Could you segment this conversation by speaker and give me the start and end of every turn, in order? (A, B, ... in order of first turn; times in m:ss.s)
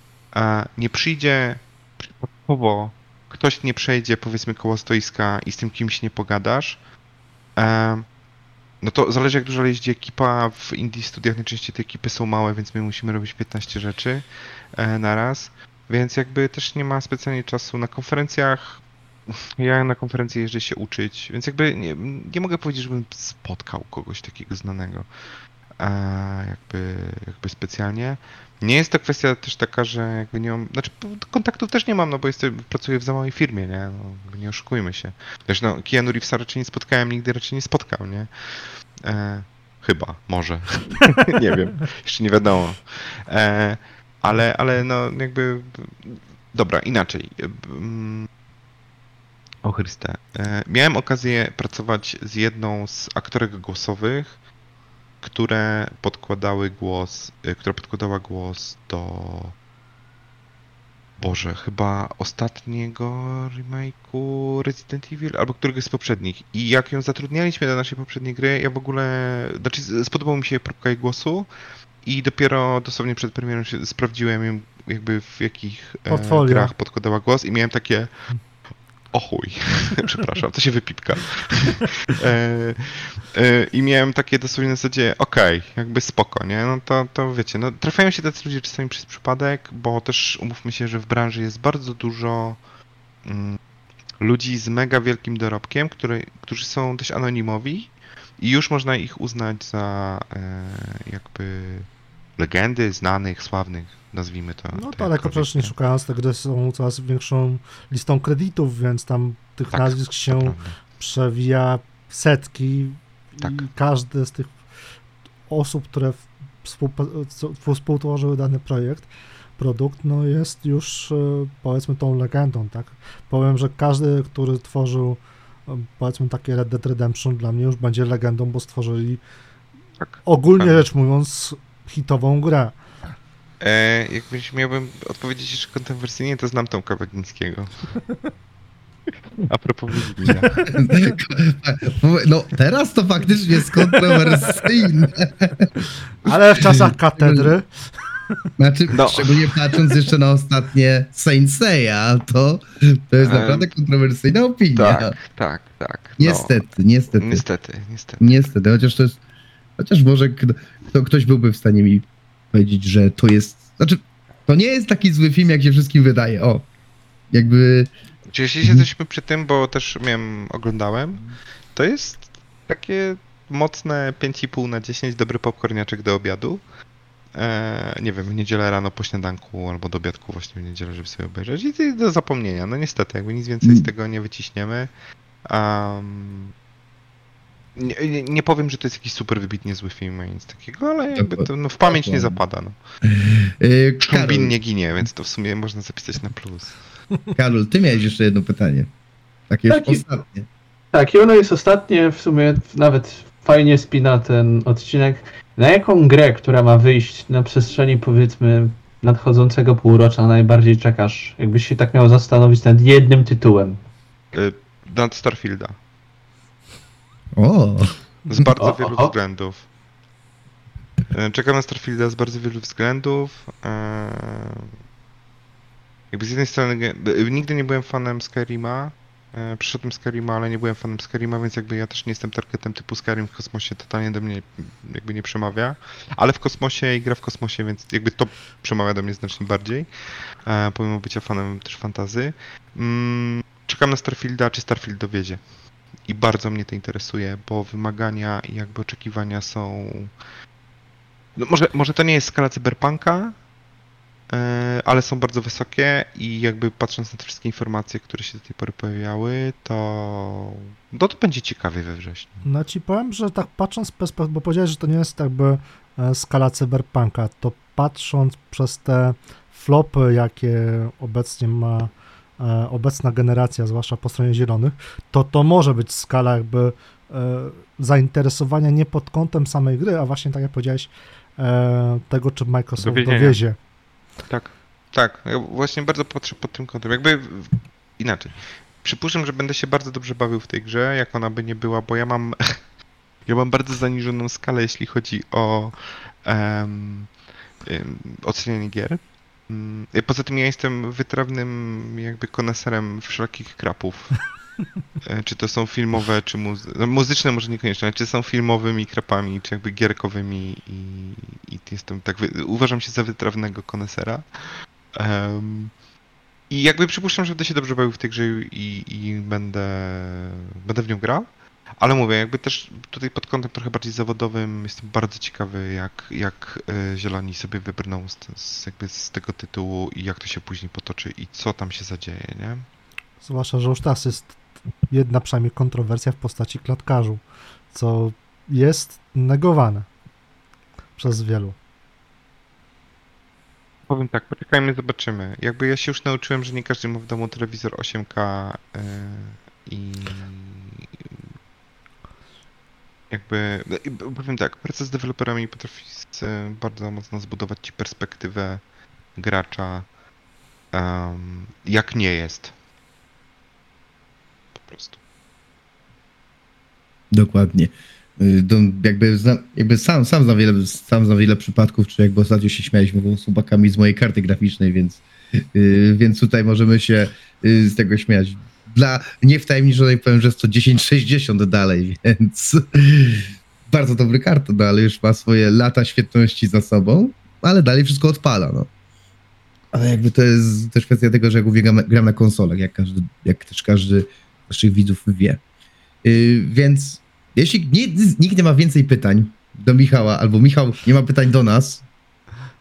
0:00.3-0:06.8 A
0:07.6-0:08.0 A
0:08.8-0:14.2 A
0:14.8-0:25.1 A
0:25.8-0:38.3 A
0:39.0-0:48.3 A
0:49.6-0:54.3 A
0:55.2-0:59.6 A
1:01.2-1:11.5 A
1:12.0-1:18.1 A
1:16.1-1:16.7 B
1:19.1-1:32.6 A
1:33.2-1:33.6 A
1:34.2-1:45.7 A
1:44.7-1:54.6 B
1:49.7-1:50.8 A
1:53.4-1:53.6 A
1:55.5-1:59.1 B
1:59.6-2:09.2 B
2:10.0-2:10.8 A
2:10.2-2:12.7 B
2:13.6-2:17.7 A
2:19.5-2:20.6 A
2:20.7-2:25.7 C
2:26.2-2:27.7 B
2:26.6-2:27.5 C
2:28.6-2:35.2 C
2:28.9-2:29.4 A
2:33.2-2:33.7 A
2:34.7-2:36.6 A
2:36.2-2:37.4 C
2:37.1-2:38.3 A
2:38.2-2:39.2 C
2:39.8-2:46.6 C
2:47.3-2:47.9 C
2:48.3-2:51.2 A
2:51.7-2:56.6 A
2:57.3-3:04.9 A
3:03.6-3:03.9 C
3:05.4-3:06.5 A
3:07.8-3:12.8 A
3:11.1-3:12.4 C
3:13.0-3:14.6 C
3:14.0-3:16.8 A
3:17.4-3:18.9 C
3:19.5-3:20.4 C
3:19.7-3:20.0 D
3:20.9-3:33.8 D
3:34.3-3:35.8 A
3:37.4-3:38.5 C
3:38.3-3:39.6 A
3:38.6-3:39.1 D
3:41.1-3:44.7 A
3:46.1-3:59.9 A
4:00.4-4:05.4 A
4:06.1-4:10.1 A
4:11.4-4:13.4 A
4:14.3-4:22.4 A
4:22.4-4:43.6 B
4:42.8-4:43.4 A
4:44.3-4:52.6 A
4:53.2-4:57.1 A
4:57.6-5:04.2 A
5:05.0-5:14.2 A
5:14.9-5:15.7 A
5:16.5-5:21.3 A
5:21.8-5:32.6 A
5:33.2-5:34.4 B
5:34.9-5:39.9 B
5:41.0-5:41.6 B
5:43.9-5:50.8 A
5:53.1-5:58.6 A
5:59.2-5:59.9 A
6:00.7-6:02.5 A
6:04.5-6:05.0 A
6:07.1-6:28.7 C
6:29.7-6:35.4 C
6:36.0-6:41.8 C